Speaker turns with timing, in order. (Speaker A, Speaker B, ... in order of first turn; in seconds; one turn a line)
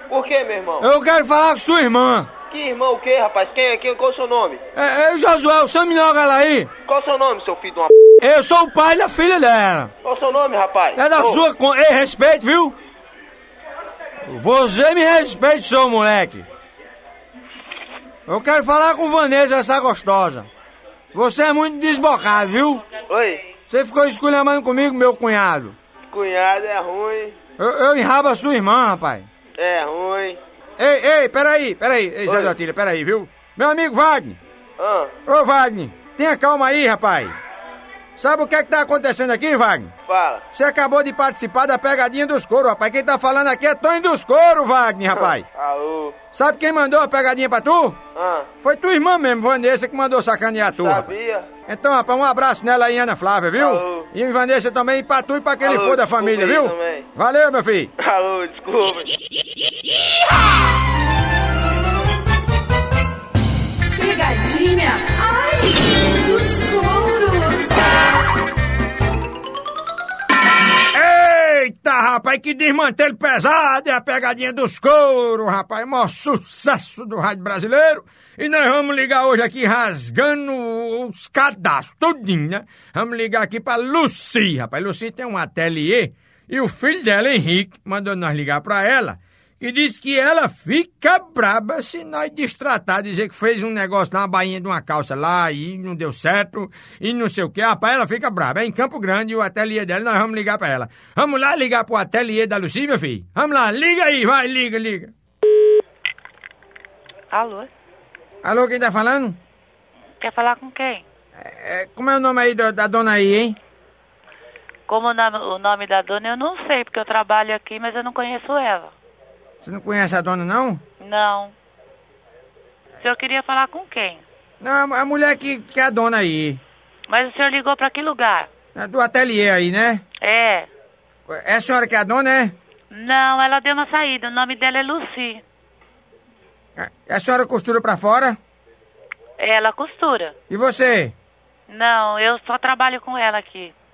Speaker A: 0.1-0.9
Speaker B: 0.8-2.3
Speaker A: 2.5-4.6
Speaker B: 4.8-6.7
Speaker A: 6.8-7.9
Speaker B: 8.2-9.9
Speaker A: 10.0-11.4
Speaker B: 11.0-12.8
Speaker B: 14.2-16.5
Speaker B: 18.3-20.5
Speaker B: 21.1-22.9
Speaker A: 23.0-23.4
Speaker B: 23.7-25.8
Speaker A: 26.1-27.4
Speaker B: 27.6-29.3
Speaker A: 29.6-30.4
Speaker B: 30.8-34.4
Speaker A: 32.3-32.6
Speaker A: 34.8-35.2
Speaker B: 35.3-37.4
Speaker B: 38.2-39.9
Speaker A: 40.1-40.5
Speaker B: 40.5-45.5
Speaker A: 45.1-46.2
Speaker B: 46.3-48.0
Speaker A: 48.1-48.5
Speaker B: 48.6-51.1
Speaker A: 50.7-51.5
Speaker B: 51.7-57.9
Speaker A: 53.5-54.1
Speaker A: 55.6-57.1
Speaker A: 58.0-59.1
Speaker C: 63.9-67.9
Speaker B: 70.9-105.1
Speaker D: 107.3-107.7
Speaker B: 108.4-109.4
Speaker D: 110.2-111.0
Speaker B: 111.4-113.6
Speaker D: 114.9-118.9
Speaker B: 119.6-120.8
Speaker D: 121.0-121.5
Speaker D: 123.0-124.2
Speaker B: 124.6-126.6
Speaker D: 127.1-128.5
Speaker B: 128.8-130.0
Speaker D: 130.2-130.7
Speaker B: 131.3-132.6
Speaker D: 132.9-135.4
Speaker B: 136.8-138.4
Speaker D: 139.4-140.3
Speaker B: 140.5-141.1
Speaker D: 141.7-143.7